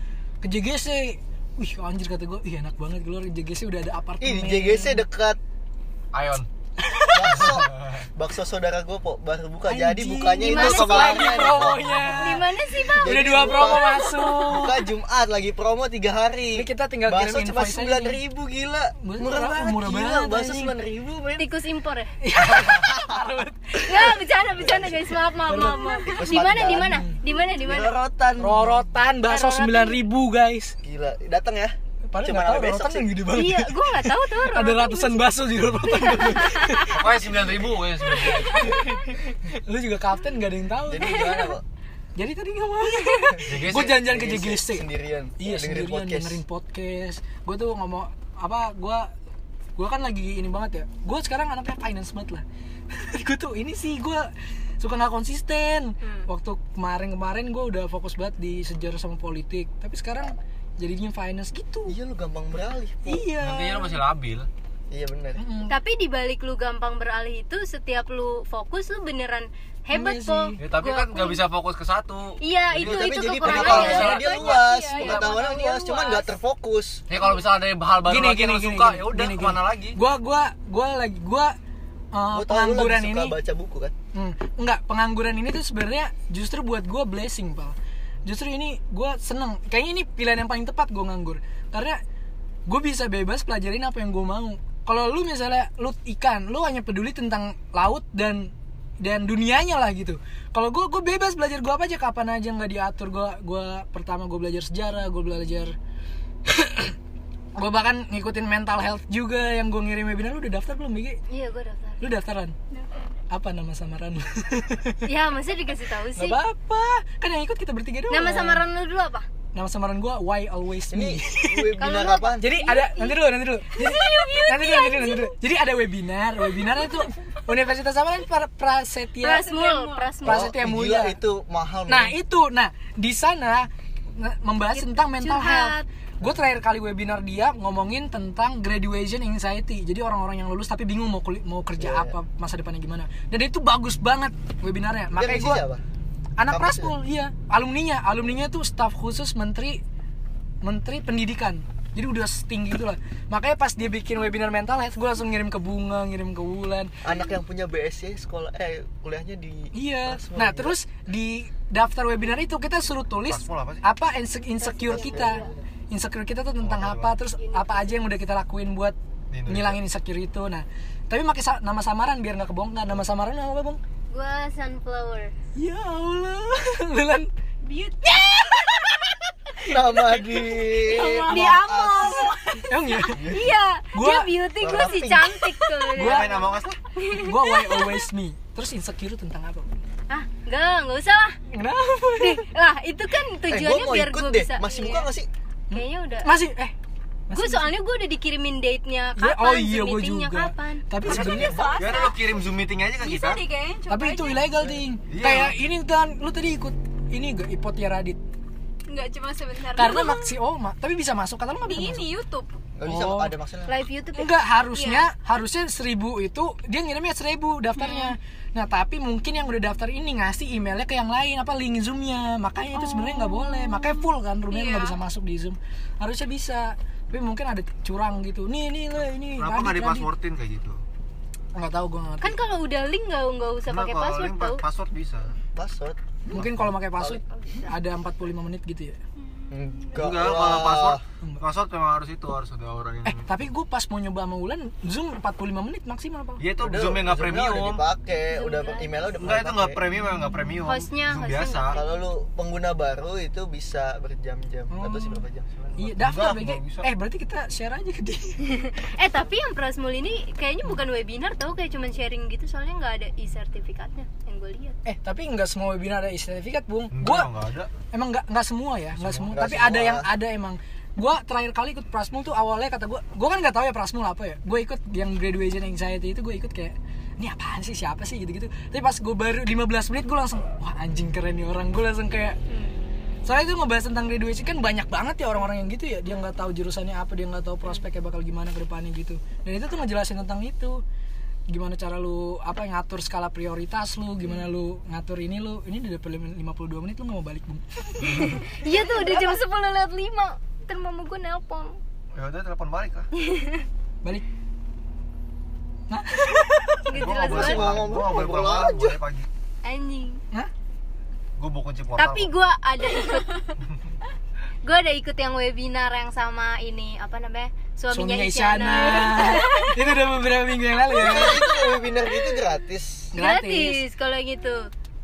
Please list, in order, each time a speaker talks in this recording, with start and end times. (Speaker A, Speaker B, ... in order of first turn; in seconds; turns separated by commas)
Speaker A: 0.4-5.0, Speaker B: 4.2-5.4, Speaker C: 6.1-6.5, Speaker A: 6.8-7.5, Speaker B: 7.1-12.2, Speaker C: 7.5-8.0, Speaker A: 9.7-12.5, Speaker D: 10.4-14.7, Speaker C: 11.6-12.2, Speaker B: 12.9-21.5, Speaker A: 13.0-14.8, Speaker A: 16.6-18.2, Speaker A: 19.0-20.7, Speaker D: 21.4-22.1, Speaker A: 22.2-24.1, Speaker B: 22.7-23.1, Speaker D: 23.8-27.9, Speaker B: 24.6-25.1, Speaker A: 25.5-26.2, Speaker B: 26.1-27.1, Speaker A: 26.8-27.2, Speaker B: 27.6-28.8, Speaker A: 28.4-30.8, Speaker D: 29.3-30.0, Speaker B: 30.8-33.2, Speaker A: 32.1-37.0, Speaker D: 33.3-36.9, Speaker C: 36.8-38.7, Speaker A: 38.1-41.5, Speaker D: 38.2-38.9, Speaker B: 40.9-41.6, Speaker A: 42.2-49.1, Speaker C: 43.5-44.0, Speaker B: 43.7-46.4, Speaker A: 49.8-52.4, Speaker A: 53.0-62.0, Speaker B: 61.9-63.3, Speaker A: 63.1-64.0, Speaker C: 63.4-64.5, Speaker B: 64.9-65.4, Speaker A: 65.4-65.8, Speaker D: 65.7-71.4, Speaker A: 69.9-70.6, Speaker C: 70.6-75.4, Speaker D: 72.4-75.0, Speaker B: 72.8-77.0, Speaker E: 73.7-76.3, Speaker C: 77.1-80.0, Speaker A: 78.0-81.5, Speaker A: 82.1-83.4, Speaker B: 82.3-83.9, Speaker A: 84.1-92.0, Speaker A: 92.7-105.8, Speaker A: 106.5-107.0, Speaker A: 107.6-111.2, Speaker D: 111.3-112.0, Speaker A: 112.0-112.5, Speaker E: 112.7-113.1, Speaker A: 113.3-115.0, Speaker D: 115.0-116.4, Speaker A: 116.2-118.6, Speaker D: 118.1-119.3, Speaker A: 119.5-121.8, Speaker B: 120.9-122.5, Speaker D: 121.8-123.2, Speaker A: 122.4-129.5, Speaker E: 123.7-125.2, Speaker D: 124.0-125.2, Speaker D: 129.2-130.5, Speaker E: 129.3-130.1, Speaker A: 130.2-131.2, Speaker B: 130.2-132.2, Speaker A: 131.9-145.6, Speaker D: 134.7-135.9, Speaker B: 141.8-142.2, Speaker B: 145.1-145.8, Speaker A: 146.4-149.8, Speaker B: 146.5-146.9, Speaker A: 150.6-156.9, Speaker B: 157.0-160.8, Speaker A: 159.7-169.0, Speaker C: 163.3-163.8, Speaker D: 164.6-165.5, Speaker B: 164.8-165.6, Speaker C: 166.6-167.2, Speaker D: 167.4-167.9, Speaker C: 169.3-169.8, Speaker A: 169.5-173.8, Speaker D: 174.1-175.3, Speaker A: 175.6-177.3, Speaker E: 177.7-178.3, Speaker A: 178.0-180.3, Speaker B: 179.7-182.3, Speaker E: 180.8-182.7, Speaker D: 181.0-182.4, Speaker A: 182.6-183.3, Speaker B: 183.1-183.6, Speaker D: 183.2-188.0, Speaker A: 183.9-184.3, Speaker B: 184.6-185.7, Speaker A: 185.9-186.5, Speaker C: 186.0-186.8, Speaker A: 187.1-189.7, Speaker D: 190.1-191.4, Speaker A: 191.5-192.4, Speaker D: 192.2-195.1, Speaker B: 193.5-195.3, Speaker A: 195.7-196.7, Speaker D: 195.7-196.3, Speaker A: 197.3-197.8, Speaker D: 197.3-200.8, Speaker A: 199.2-201.6, Speaker B: 201.0-202.0, Speaker E: 201.1-204.5, Speaker C: 201.8-203.4, Speaker A: 203.9-208.2, Speaker C: 205.1-205.6, Speaker E: 208.9-210.3, Speaker A: 209.8-212.1, Speaker E: 211.6-212.5, Speaker B: 212.8-213.8, Speaker A: 212.8-213.3, Speaker D: 213.7-214.3, Speaker A: 214.2-230.1, Speaker E: 214.7-215.1, Speaker E: 217.8-218.1, Speaker E: 222.8-223.9, Speaker E: 224.5-225.0, Speaker C: 229.4-230.8, Speaker A: 231.6-232.4, Speaker D: 232.2-234.6, Speaker C: 233.7-235.3, Speaker B: 235.6-236.0, Speaker A: 236.3-239.0, Speaker E: 239.3-239.9, Speaker B: 239.5-241.0, Speaker C: 239.9-243.3, Speaker A: 243.0-246.4, Speaker C: 246.4-247.8, Speaker B: 246.6-249.8, Speaker D: 248.3-249.1, Speaker C: 249.2-251.8, Speaker D: 250.6-252.0, Speaker B: 251.7-255.8, Speaker A: 254.7-255.2, Speaker A: 255.8-258.6, Speaker C: 255.8-256.9, Speaker D: 258.6-264.8, Speaker A: 264.9-267.3, Speaker C: 266.9-267.7, Speaker A: 267.9-282.4, Speaker C: 269.0-269.4, Speaker B: 269.3-270.1, Speaker A: 283.3-290.8, Speaker A: 291.5-298.4, Speaker D: 298.0-301.8, Speaker E: 299.0-299.4, Speaker C: 302.1-303.1, Speaker D: 303.2-303.6, Speaker A: 305.9-306.9, Speaker D: 306.9-307.9, Speaker C: 306.9-309.3, Speaker B: 307.2-309.0, Speaker D: 309.6-310.2, Speaker C: 311.4-312.3, Speaker D: 312.0-313.4, Speaker E: 312.9-313.4, Speaker D: 314.6-319.9, Speaker A: 317.9-321.4, Speaker B: 320.9-323.1, Speaker D: 321.0-322.4, Speaker A: 323.1-323.8, Speaker D: 323.1-324.7